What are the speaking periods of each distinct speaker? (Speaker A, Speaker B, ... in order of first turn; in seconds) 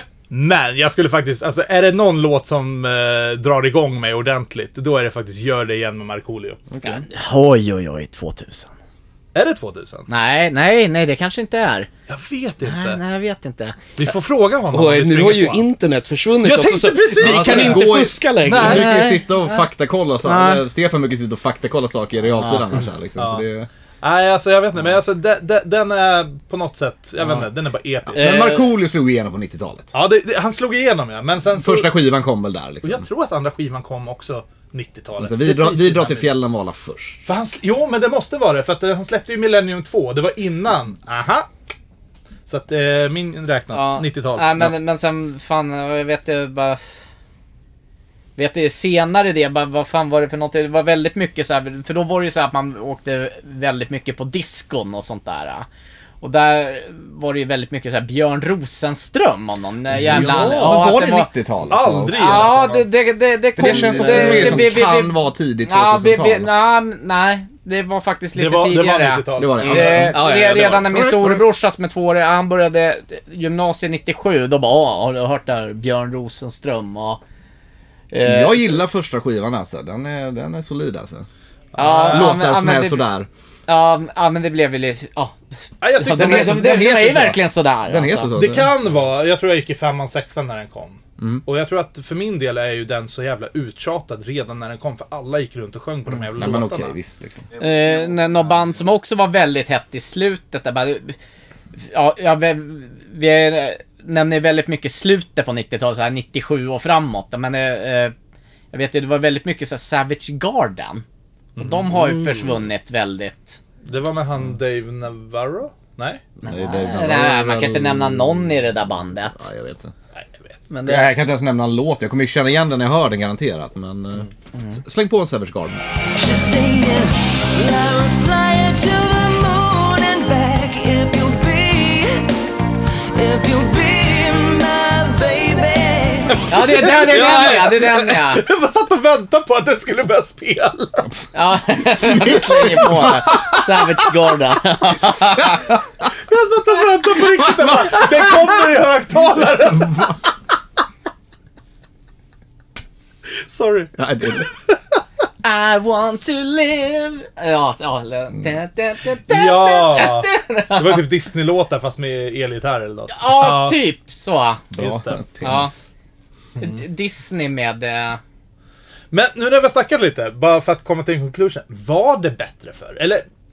Speaker A: 0.3-6.6, 9.3-10.1, 12.1-13.0, 14.0-15.7, 16.4-17.9, 18.4-18.9, 23.2-23.4, 24.0-28.4, 29.9-31.9, 32.8-36.3, 37.2-41.5, 42.5-44.7, 60.1-60.8, 61.7-62.9, 63.6-64.7, 68.3-70.0, 81.7-82.3, 85.8-87.2, 88.3-96.9, 111.5-112.4, 113.8-116.2, 120.2-120.5, 136.7-141.1, 146.1-150.2, 153.4-154.7, 159.3-163.8, 164.7-165.2, 169.1-173.2
Speaker B: 6.7-7.0, 17.2-23.7, 28.1-29.9, 31.5-33.1, 35.2-37.3, 59.9-62.7, 63.6-66.5, 69.4-70.2, 78.2-81.3, 82.0-83.3, 86.0-88.8, 91.2-91.4, 96.4-97.5, 116.4-119.9, 120.8-125.8, 141.8-143.9, 145.1-146.1, 147.1-148.6, 149.3-150.2, 154.0-154.5, 164.8-165.7
Speaker C: 6.8-8.7, 10.1-11.9, 12.6-13.9, 18.7-19.6, 20.2-20.6, 28.1-28.7, 43.7-46.8, 48.4-55.6, 56.2-61.3, 62.1-77.2, 78.1-78.8, 81.8-83.0, 83.7-85.4, 86.0-88.3, 97.6-101.2, 101.9-108.1, 108.7-111.0, 111.6-113.6, 116.4-119.5, 120.7-121.1, 124.5-124.8, 136.5-138.4, 141.3-145.7, 155.4-161.1, 163.1-164.7, 165.4-165.7, 166.6-168.2
Speaker D: 14.7-18.9, 69.6-71.4, 136.9-138.1
Speaker E: 126.1-132.4, 133.1-136.5